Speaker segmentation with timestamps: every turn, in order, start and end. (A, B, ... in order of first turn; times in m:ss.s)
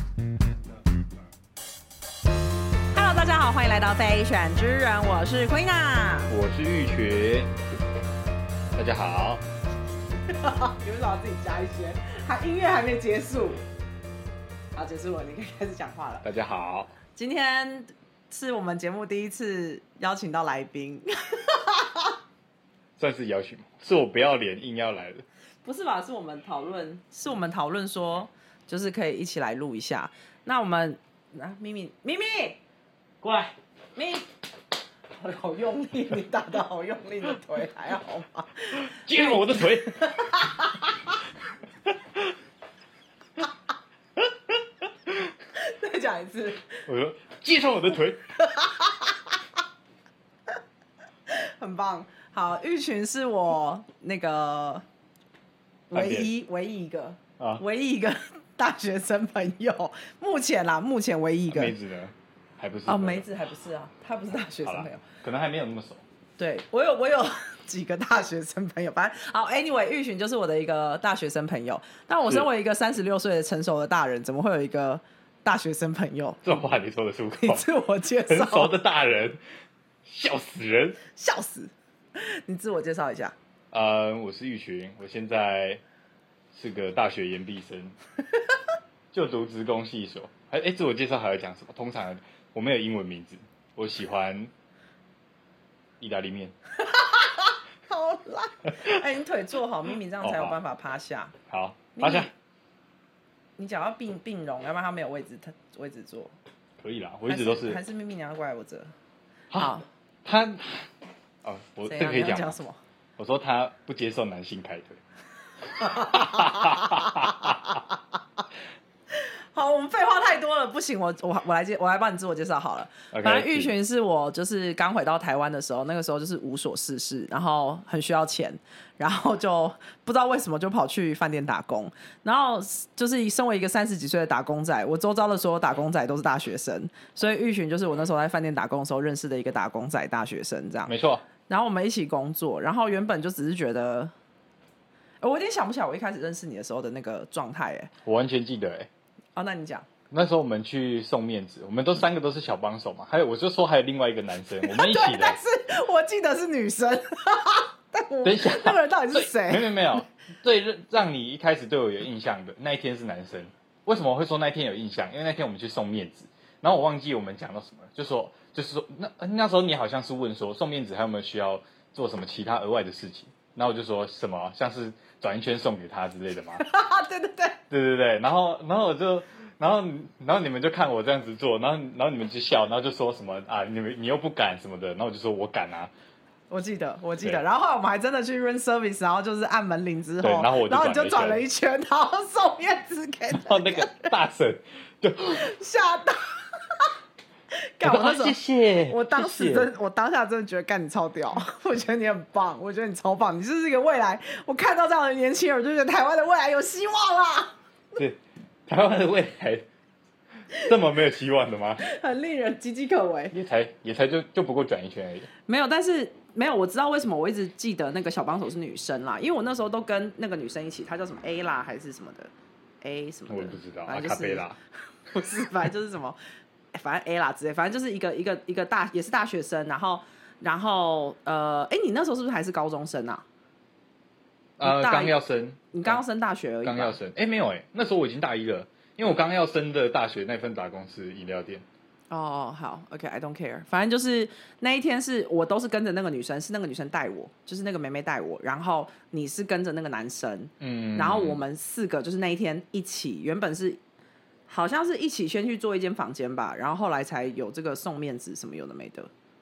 0:02.9-0:06.3 A
0:06.3-0:07.5 B
0:08.8-0:09.4 B
0:10.3-0:13.6 A
0:14.8-0:16.3 A
0:16.2-0:16.9 B
0:17.2-0:22.2 A
0:23.0-0:25.2 B
0:25.6-0:32.6 A
0:33.2-0:33.5 B
0:34.0-0:34.2 A
0:35.2-0:41.2 A
0:38.8-0:40.1 B
0:45.6-0:46.8 A
0:46.9-0:48.2 B
0:48.3-0:49.3 A
0:51.3-0:54.8 A
0:55.9-1:01.7 A
0:55.9-0:56.3 B
1:01.5-1:03.3 B
1:02.9-1:05.0 A
1:04.6-1:06.0 B
1:06.4-1:16.4 A
1:16.4-1:17.7 B
1:17.4-1:18.7 A
1:18.3-1:19.4 B
1:20.0-1:21.0 B
1:21.1-1:23.4 A
1:23.7-1:25.8 B
1:26.5-1:28.0 B
1:29.1-1:34.5 B
1:36.0-1:36.6 B
1:36.8-1:41.4 A
1:40.2-1:40.6 B
1:41.5-1:42.3 B
1:42.0-1:42.3 A
1:43.6-1:46.4 A
1:46.8-1:47.8 B
1:47.3-1:48.9 A
1:49.5-1:50.9 B
1:49.5-1:49.9 A
1:51.4-1:52.6 B
1:51.9-1:52.8 A
1:53.2-1:55.0 B
1:55.8-1:57.8 A
1:55.8-1:57.8 B
1:59.1-2:20.9 A
2:03.1-2:03.7 B
2:20.9-2:21.2 B
2:21.5-2:24.1 A
2:25.2-2:27.9 A
2:28.0-2:28.9 B
2:29.4-2:29.9 A
2:30.1-2:35.4 B
2:34.6-2:40.0 A
2:38.2-2:56.7 B
2:56.6-2:57.6 A
2:57.7-3:05.9 B
3:06.5-3:14.1 A
3:10.2-3:11.4 B
3:13.3-3:15.5 B
3:15.3-3:16.9 A
3:17.8-3:27.5 A
3:17.8-3:19.7 B
3:28.0-3:29.7 B
3:30.6-3:31.8 B
3:31.8-3:33.4 A
3:33.3-3:35.3 B
3:35.5-3:42.3 A
3:42.8-3:44.5 A
3:43.3-3:44.6 B
3:45.1-3:46.2 A
3:46.7-3:53.2 A
3:54.6-3:56.0 B
3:54.6-3:55.2 A
3:55.7-3:57.0 A
3:56.6-4:01.6 B
4:02.1-4:13.8 A
4:10.6-4:11.4 B
4:14.5-4:19.1 A